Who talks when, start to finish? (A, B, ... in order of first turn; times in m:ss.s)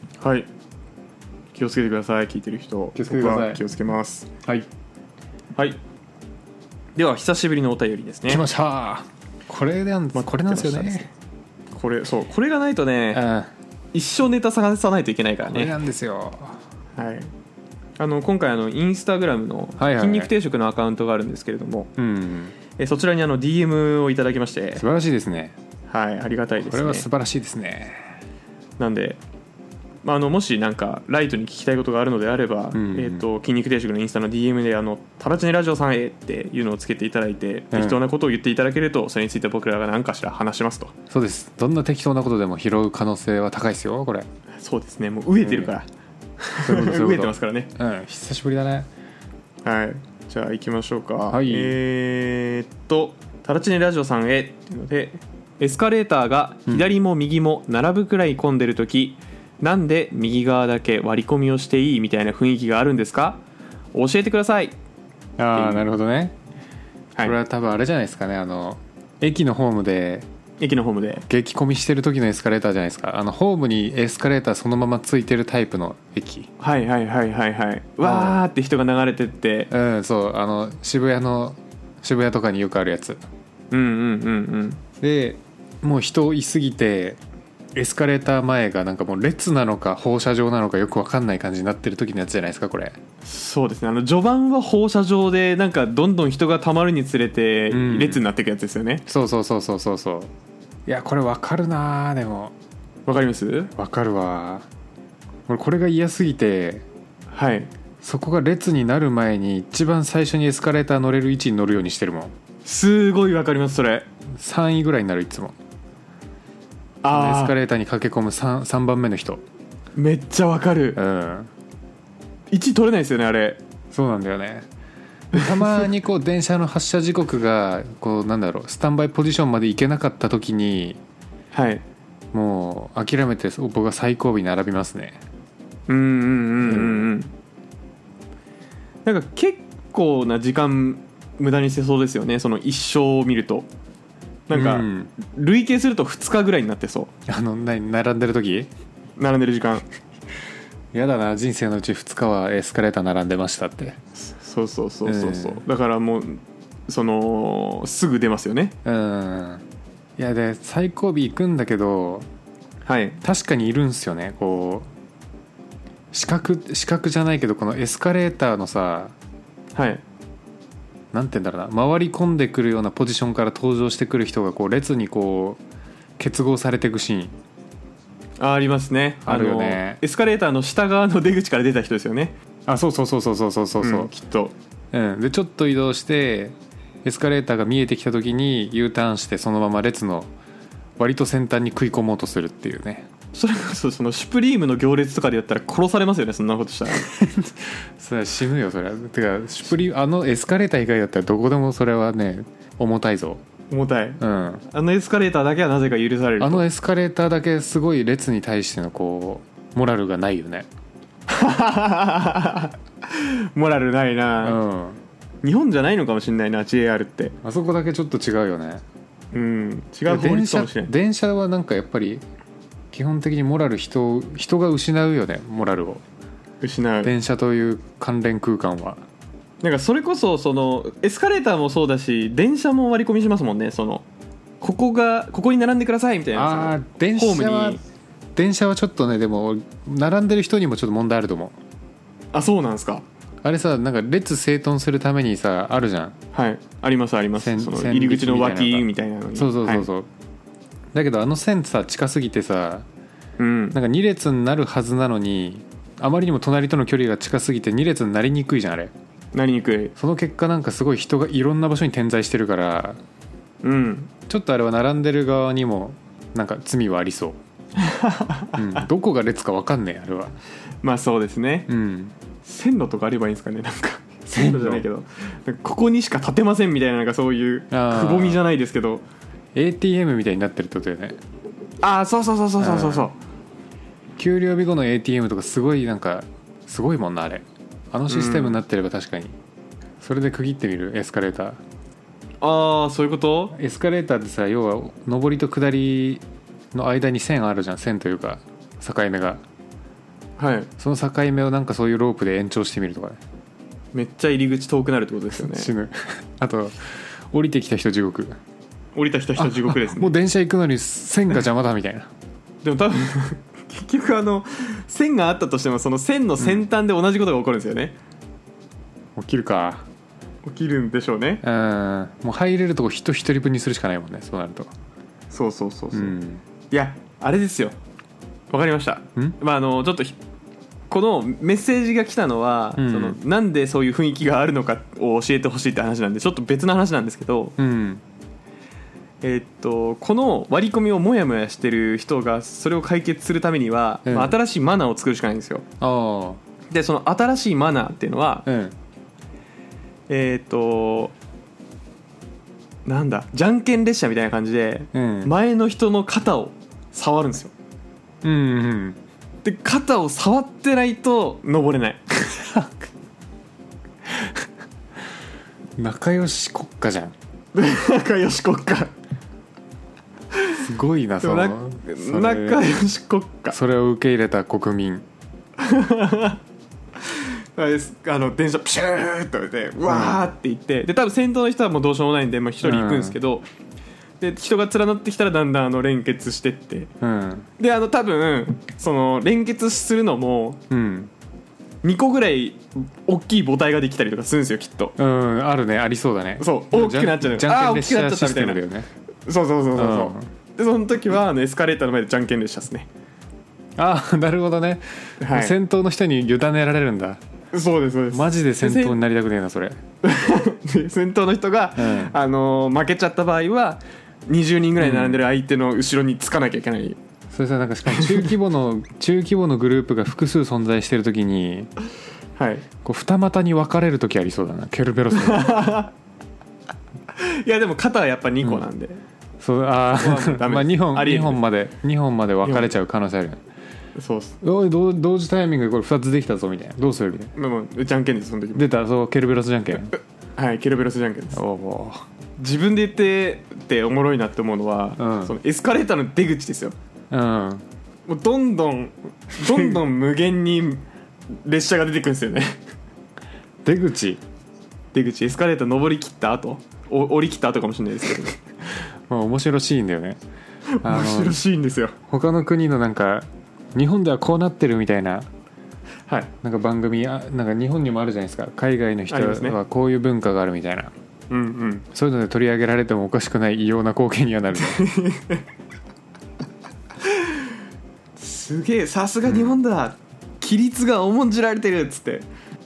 0:00.2-0:00.5 A
0:01.5-0:04.3 A
0:02.9-0:03.6 B
0:07.0-0:08.4 A
0:08.3-0:11.1 B
0:10.1-0:11.1 A
0:11.7-0:13.2 A
0:13.1-0:13.5 B
0:13.9-0:15.7 A
0:15.5-0:16.6 B
0:17.0-0:17.3 A
0:18.0-0:21.9 A
0:19.8-0:20.3 B
0:22.0-0:22.5 B
0:22.8-0:24.8 A
0:24.8-0:25.6 B
0:25.9-0:27.1 A
0:26.6-0:28.2 B
0:28.8-0:29.2 A
0:30.0-0:40.9 A
0:32.7-0:33.2 B
0:37.7-0:38.0 B
0:41.1-0:44.3 B
0:44.6-0:45.8 A
0:45.4-0:45.7 B
0:46.4-0:47.7 A
0:46.6-0:48.9 B
0:49.6-1:03.4 A
0:51.3-0:51.8 B
1:03.9-1:04.7 A
1:05.4-1:06.3 B
1:05.5-1:05.9 A
1:07.2-1:10.3 B
1:10.6-1:11.2 A
1:11.3-1:16.5 B
1:16.6-1:19.7 A
1:18.0-1:18.4 B
1:19.7-1:23.2 B
1:23.7-1:24.8 A
1:25.0-1:27.2 B
1:27.7-1:33.0 B
1:33.2-1:39.0 A
1:37.7-1:38.2 B
1:39.0-1:40.3 B
1:40.8-1:42.5 B
1:43.0-1:43.7 A
1:43.7-1:44.6 B
1:45.5-1:46.8 B
1:47.3-1:47.7 A
1:48.0-1:52.3 B
1:52.6-1:54.1 A
1:54.3-1:55.5 B
1:57.0-1:57.5 A
1:57.1-1:59.4 B
2:00.0-2:01.0 A
2:01.0-2:01.5 B
2:02.5-2:03.6 A
2:03.9-2:04.7 B
2:05.3-2:11.0 B
2:11.5-2:11.8 A
2:12.3-2:15.2 B
2:15.9-2:17.3 A
2:16.6-2:17.1 B
2:19.0-2:23.7 A
2:24.5-2:27.1 A
2:24.5-2:25.1 B
2:27.3-2:28.7 B
2:29.2-2:29.8 A
2:30.9-2:34.0 B
2:34.2-2:38.8 A
2:35.0-2:35.6 B
2:38.8-2:39.6 B
2:40.2-2:42.3 B
2:42.8-2:43.2 A
2:43.2-2:44.9 B
2:46.1-2:49.1 B
2:49.7-2:50.0 A
2:51.1-2:55.6 B
2:56.2-2:57.3 B
2:58.4-3:02.4 A
2:59.2-3:00.0 B
3:02.6-3:04.1 B
3:03.8-3:04.5 A
3:04.9-3:10.3 B
3:11.0-3:13.1 B
3:13.3-3:17.1 A
3:17.0-3:23.4 B
3:23.7-3:26.6 A
3:24.2-3:24.6 B
3:26.4-3:30.7 B
3:31.3-3:34.6 A
3:34.4-3:35.0 B
3:35.4-3:37.4 A
3:37.4-3:38.8 B
3:39.3-3:40.9 A
3:40.0-3:42.2 B
3:42.9-3:46.0 B
3:46.6-3:47.1 A
3:47.0-3:49.0 B
3:49.6-3:54.0 A
3:54.6-3:57.8 A
3:56.3-3:57.8 B
3:58.3-4:01.6 B
4:02.3-4:03.0 A
4:03.4-4:06.2 B
4:06.3-4:09.9 A
4:07.4-4:10.1 B
4:10.9-4:12.8 B
4:13.4-4:13.8 A
4:13.7-4:18.9 B
4:19.3-4:19.9 A
4:20.0-4:23.0 B
4:23.6-4:24.1 A
4:24.3-4:27.4 B
4:27.8-4:28.8 A
4:28.5-4:30.4 B
4:30.8-4:31.7 A
4:31.7-4:32.1 B
4:32.4-4:39.0 A
4:34.3-4:34.8 B
4:37.7-4:38.4 B
4:39.5-4:41.2 B
4:41.8-4:43.2 A
4:42.6-4:43.1 B
4:44.2-4:49.3 B
4:48.1-4:48.6 A
4:50.0-4:51.6 B
4:52.4-4:53.5 A
4:53.5-4:56.2 B
4:56.7-4:59.4 B
5:00.4-5:00.7 A
5:00.8-5:03.2 B
5:03.9-5:05.7 A
5:05.3-5:08.4 B
5:08.9-5:10.1 A
5:09.4-5:12.1 B
5:12.6-5:17.9 A
5:19.2-5:19.8 B
5:20.4-5:21.4 A
5:21.4-5:24.7 B
5:25.3-5:26.2 A
5:25.9-5:26.4 B
5:26.7-5:27.7 A
5:28.5-5:30.2 A
5:30.9-5:37.6 A
5:32.8-5:33.2 B
5:37.6-5:38.0 B
5:39.2-5:45.6 A
5:44.0-5:44.4 B
5:45.8-5:46.4 B
5:46.7-5:48.5 A
5:48.4-5:48.7 B
5:50.1-5:51.1 A
5:52.8-5:57.5 A
5:54.9-5:55.3 B
5:58.2-5:59.0 B
5:59.4-6:02.2 A
6:02.4-6:02.7 B
6:05.8-6:07.1 B
6:07.5-6:08.9 A
6:10.6-6:12.6 B
6:11.2-6:13.6 A
6:13.5-6:15.0 B
6:15.6-6:16.4 A
6:17.0-6:23.4 A
6:19.8-6:20.2 B
6:22.6-6:23.2 B
6:24.2-6:26.9 A
6:27.0-6:27.5 B
6:27.6-6:30.6 A
6:30.7-6:31.1 B
6:31.8-6:35.0 A
6:35.0-6:38.9 B
6:36.4-6:38.6 A
6:39.3-6:42.9 A
6:39.7-6:40.3 B
6:43.8-6:47.2 B
6:45.2-6:45.6 A
6:47.5-6:49.0 A
6:48.1-6:49.8 B
6:50.0-6:57.0 A
6:51.8-6:52.1 B
6:54.8-6:55.2 B
6:57.3-7:01.7 B
6:57.9-6:58.2 A
7:02.4-7:02.6 A
7:02.8-7:05.6 B
7:05.1-7:05.9 A
7:07.1-7:09.0 A
7:09.4-7:13.4 B
7:10.0-7:11.4 A
7:12.4-7:12.7 A
7:14.0-7:14.4 A
7:14.4-7:17.3 B
7:17.4-7:18.7 A
7:18.5-7:19.9 B
7:20.4-7:21.4 A
7:21.3-7:22.0 B
7:22.4-7:26.7 A
7:25.0-7:25.3 B
7:27.1-7:27.6 B
7:28.1-7:32.6 A
7:29.4-7:29.7 B
7:33.6-7:34.2 B
7:34.9-7:38.4 A
7:39.1-7:40.2 B
7:40.7-7:41.9 A
7:40.8-7:41.4 B
7:42.0-7:45.3 B
7:46.4-7:50.9 B
7:49.1-7:49.6 A
7:51.3-7:51.8 A
7:51.9-7:54.8 B
7:54.6-7:55.4 A
7:58.2-8:02.2 A
7:59.2-7:59.6 B